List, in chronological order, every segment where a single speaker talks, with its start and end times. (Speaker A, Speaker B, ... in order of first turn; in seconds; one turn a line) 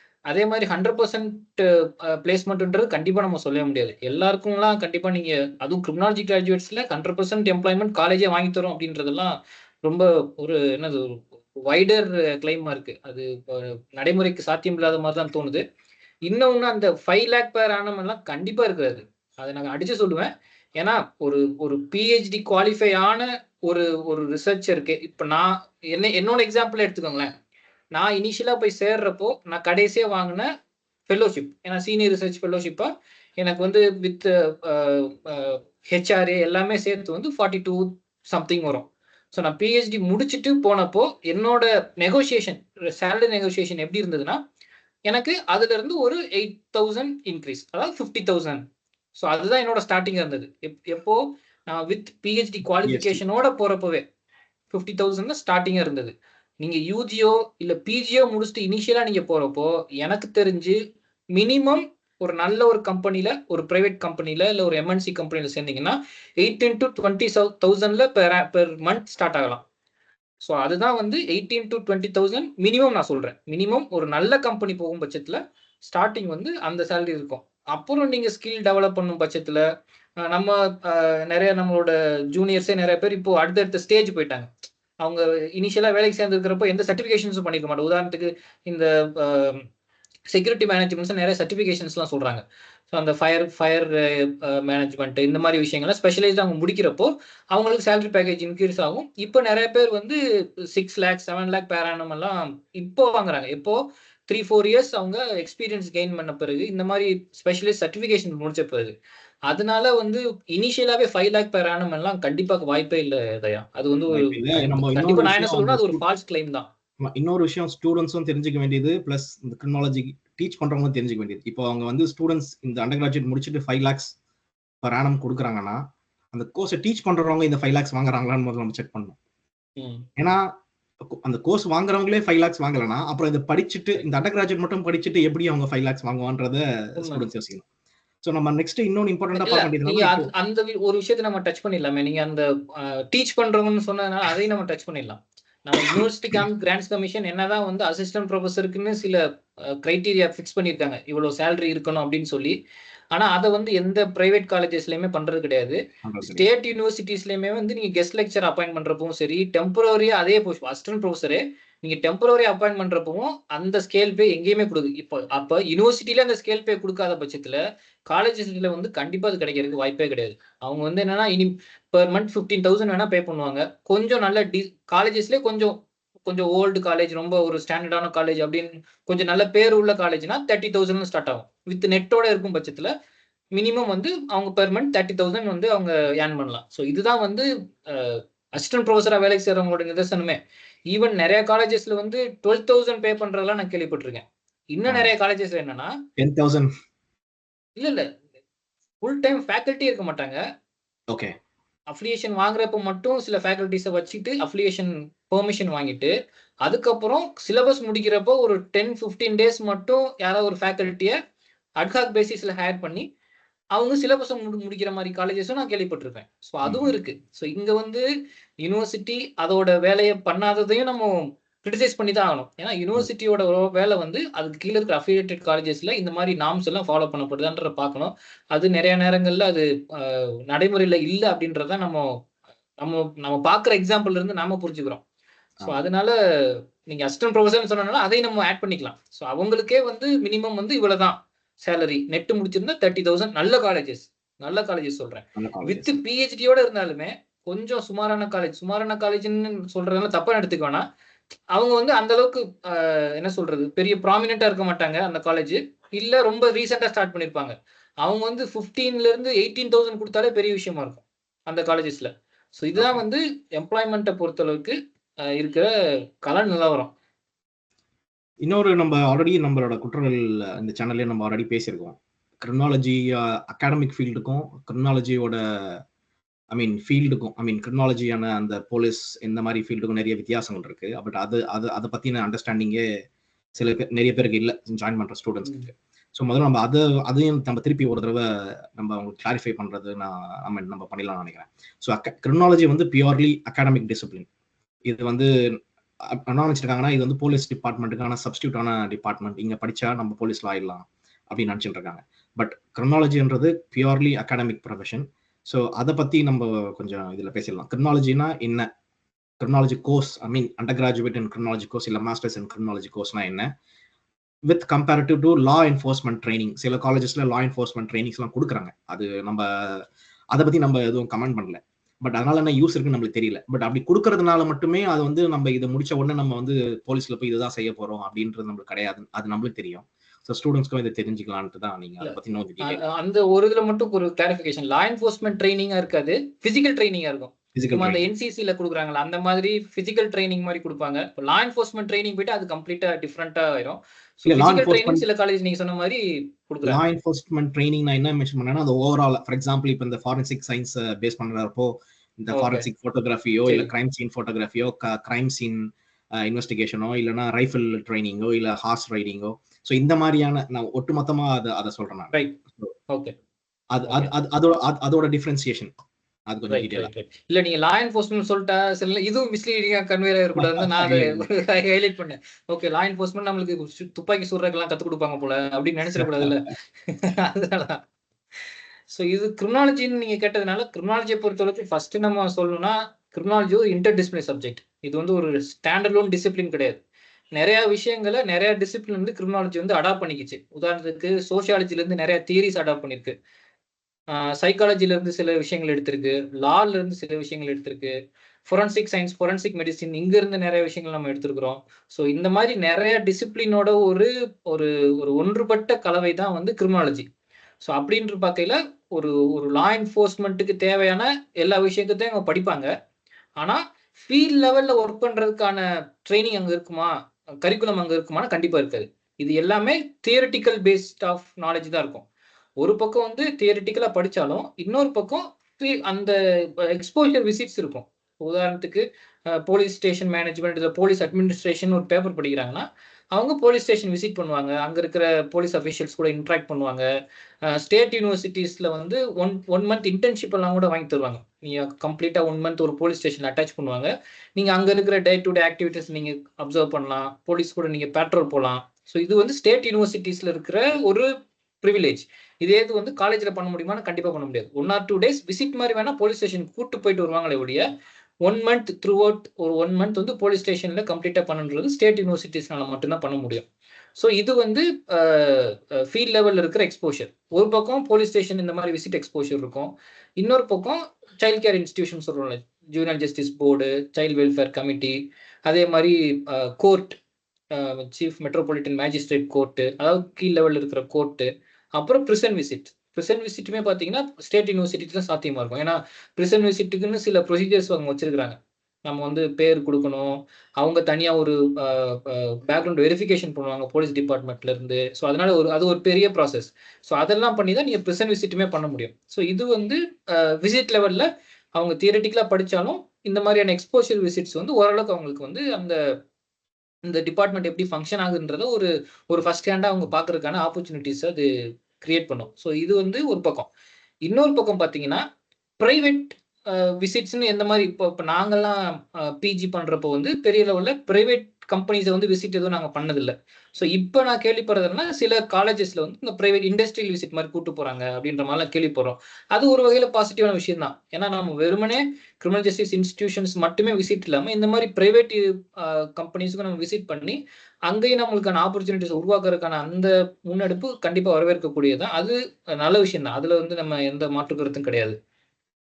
Speaker A: 0.3-15.6
Speaker A: 16.3-27.3
Speaker A: 27.9-30.5
Speaker A: 31.1-44.4
Speaker A: 45.1-48.6
Speaker A: 49.1-54.0
Speaker B: 52.8-53.2
Speaker A: 54.7-60.8
Speaker A: 61.3-69.6
Speaker A: 70.4-79.6
Speaker A: 80.2-84.5
Speaker A: 85.0-89.6
Speaker A: 90.3-100.2
Speaker A: 100.7-108.9
Speaker A: 109.5-116.7
Speaker B: 114.1-116.0
Speaker B: 117.0-124.1
Speaker B: 124.8-125.8
Speaker B: 126.3-129.2
Speaker A: 129.8-130.0
Speaker B: 130.2-130.5
Speaker B: 131.2-137.6
Speaker A: 137.0-137.2
Speaker B: 138.2-140.3
Speaker A: 139.4-149.2
Speaker B: 145.9-146.4
Speaker A: 149.8-152.5
Speaker A: 153.1-182.9
Speaker B: 156.0-156.5
Speaker A: 183.5-190.4
Speaker A: 190.9-195.9
Speaker B: 194.9-195.1
Speaker B: 196.2-196.7
Speaker A: 197.8-198.0
Speaker A: 199.0-200.4
Speaker A: 201.9-206.1
Speaker A: 206.6-211.1
Speaker A: 211.8-213.1
Speaker A: 213.7-218.0
Speaker B: 216.6-216.9
Speaker A: 218.6-232.1
Speaker A: 232.8-235.0
Speaker A: 235.6-250.8
Speaker B: 245.4-245.9
Speaker A: 251.5-264.8
Speaker B: 262.8-263.0
Speaker A: 265.3-265.7
Speaker A: 266.2-266.9
Speaker B: 268.4-275.8
Speaker B: 276.5-282.8
Speaker B: 283.5-285.5
Speaker A: 285.4-285.7
Speaker B: 286.1-288.2
Speaker B: 288.8-294.3
Speaker B: 294.9-295.3
Speaker B: 296.2-308.7
Speaker B: 309.4-313.5
Speaker B: 314.5-332.8
Speaker A: 332.0-346.8
Speaker B: 337.5-338.0
Speaker B: 344.3-345.0
Speaker B: 346.6-355.6
Speaker A: 352.3-352.7
Speaker B: 356.2-362.7
Speaker B: 363.7-365.7
Speaker B: 366.3-366.9
Speaker A: 366.5-377.8
Speaker B: 370.4-371.3
Speaker B: 375.9-376.4
Speaker A: 378.9-386.8
Speaker A: 387.4-393.1
Speaker A: 394.1-397.9
Speaker A: 398.5-407.1
Speaker A: 407.6-412.7
Speaker A: 413.4-422.1
Speaker A: 422.6-436.8
Speaker A: 437.5-451.1
Speaker A: 451.6-457.6
Speaker A: 458.2-463.5
Speaker A: 464.0-477.0
Speaker A: 477.5-505.8
Speaker A: 506.8-511.3
Speaker A: 511.8-513.5
Speaker A: 514.0-515.0
Speaker A: 515.6-545.0